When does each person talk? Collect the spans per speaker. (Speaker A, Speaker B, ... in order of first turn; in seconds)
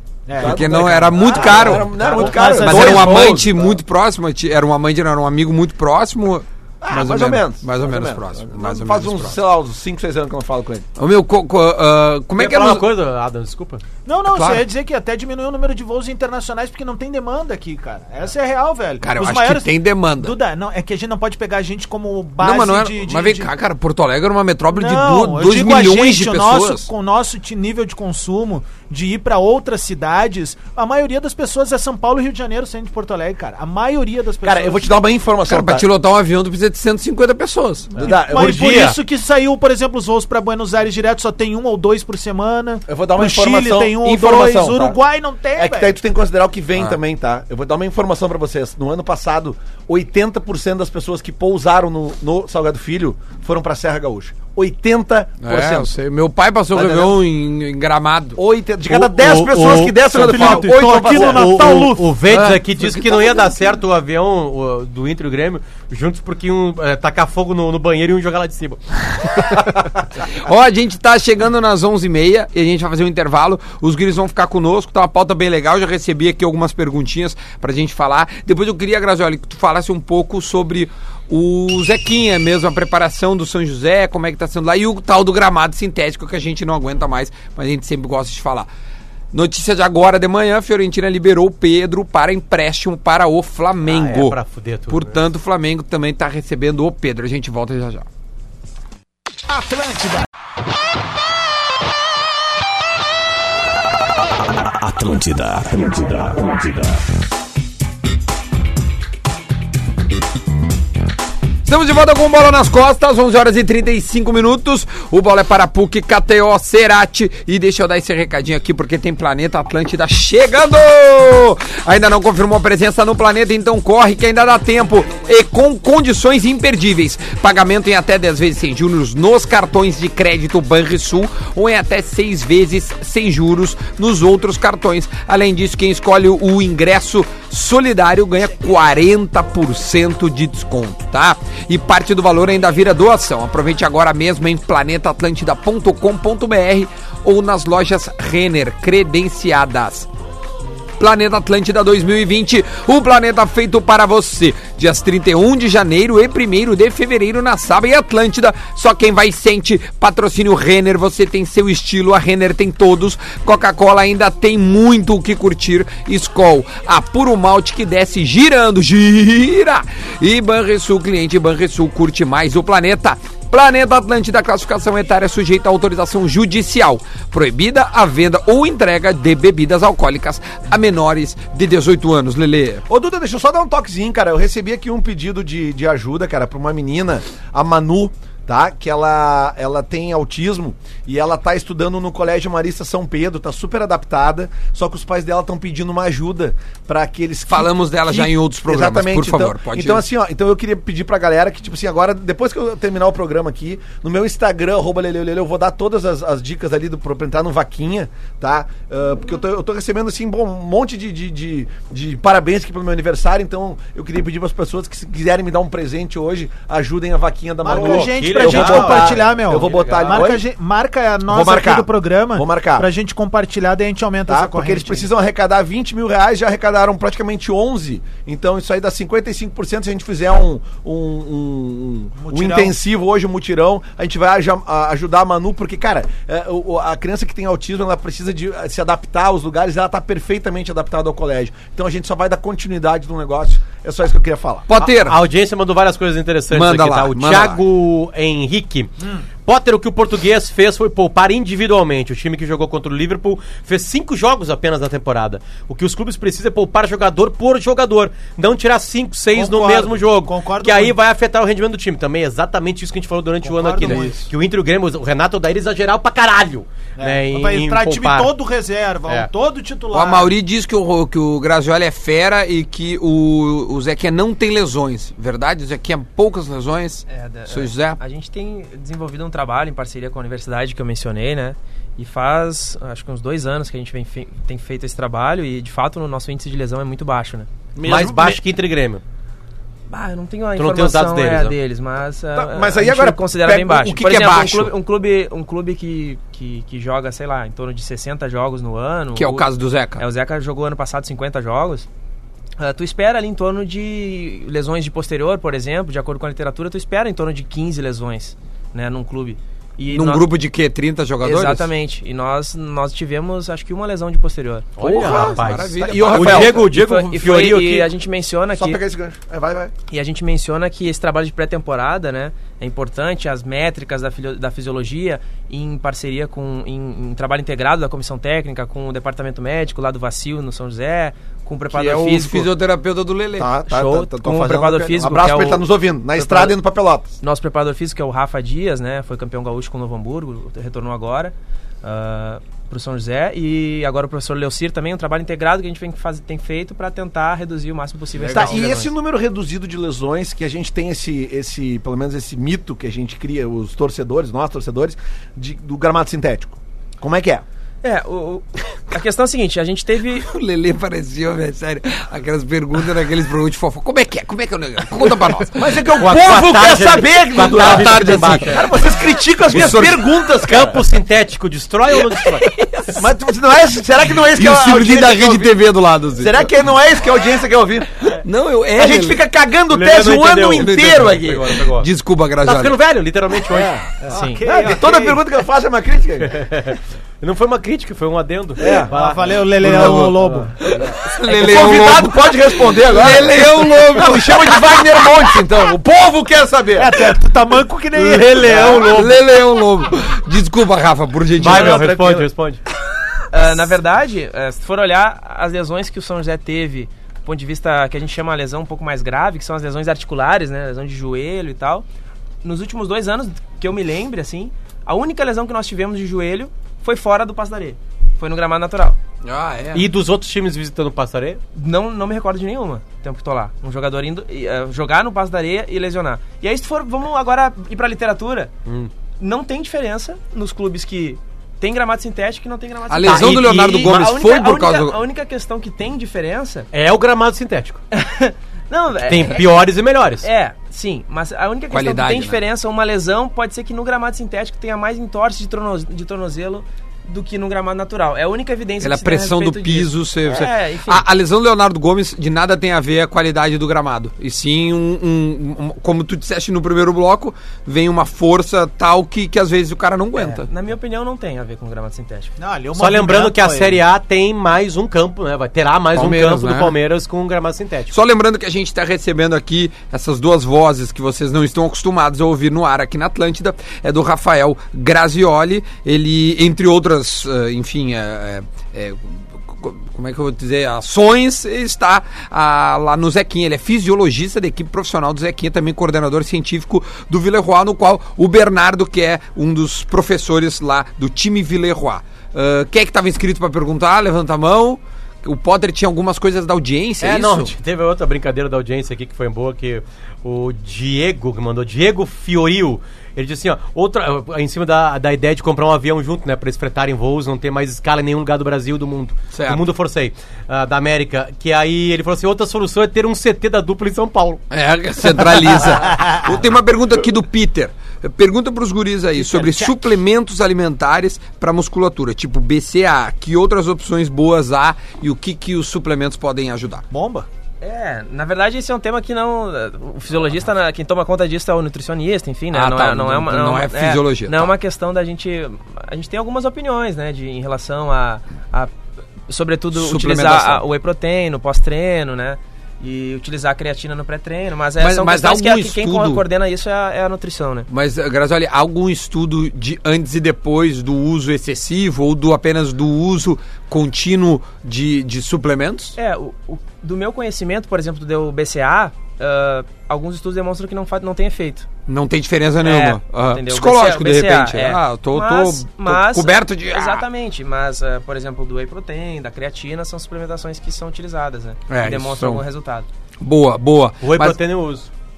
Speaker A: 0.3-3.4, 14.0-23.5, 24.7-35.0, 38.0-46.0, 60.1-62.2, 99.5-100.2, 217.6-225.1, 232.1-232.8, 259.3-261.0, 263.4-264.3, 267.0-270.3, 384.1-385.2, 388.9-390.5, 396.8-398.8, 462.4-463.8, 519.2-519.8, 526.9-527.3
Speaker B: 0.4-3.8, 6.8-10.8, 34.4-35.9, 38.0-38.9, 42.9-45.0, 45.5-55.9, 56.7-57.2, 58.4-61.9, 182.9-220.4, 221.3-222.9, 224.3-244.7, 287.7-288.4, 292.3-293.9, 314.9-316.8, 318.5-319.7, 333.4-337.1, 348.3-357.4, 365.5-370.8, 372.9-375.6, 376.2-378.1, 378.7-381.5, 383.5-386.4, 388.6-388.9, 390.7-397.0, 398.4-398.9, 401.4-402.3
Speaker C: 0.4-9.4, 11.0-12.9, 14.3-14.7, 19.0-20.4, 22.4-26.9, 35.5-38.0, 55.4-58.4, 62.2-63.6, 69.2-69.7, 70.2-88.7, 89.3-94.4, 94.9-98.0, 105.3-106.3, 111.6-150.1, 151.0-182.8, 197.5-200.1, 244.7-245.2, 246.5-247.6, 269.9-278.0, 293.6-294.7, 299.1-300.0, 309.9-311.7, 314.8-316.6, 331.7-333.5, 348.2-348.6, 360.1-365.8, 367.4-368.6, 369.5-370.1, 374.2-376.5, 378.1-379.2, 380.5-382.8, 389.6-395.2, 398.7-402.0, 419.2-419.9, 432.9-435.0, 441.7-442.4, 448.8-460.5, 465.9-466.8, 467.9-497.5, 509.3-509.6, 514.5-526.9, 532.5-534.5, 539.7-540.6, 544.8-546.2, 547.7-556.0, 561.9-567.0, 571.7-572.4, 573.2-574.4
Speaker D: 12.3-13.8, 38.0-39.0, 58.9-68.8, 93.8-95.2, 217.7-220.4, 244.7-268.4, 287.8-289.0, 290.6-291.5, 314.8-317.9, 365.9-368.7, 370.5-372.5, 379.7-381.9, 382.4-383.7, 386.2-390.5, 397.9-399.2, 401.4-402.6, 419.7-421.4, 428.6-428.9, 433.0-434.0, 436.7-437.8, 439.1-440.3, 462.7-467.9, 497.0-514.4, 574.0-574.9
Speaker E: 277.1-287.5, 289.9-301.9, 302.6-310.3, 311.2-314.8, 316.5-318.8, 319.9-332.5, 333.7-336.6, 337.2-348.9, 357.8-360.3, 384.1-384.5, 403.3-411.8, 412.4-419.0, 421.5-428.5, 429.2-436.7, 437.9-439.6, 440.2-451.1, 460.1-462.3, 527.6-538.7, 539.3-547.7, 556.0-561.7, 562.6-572.9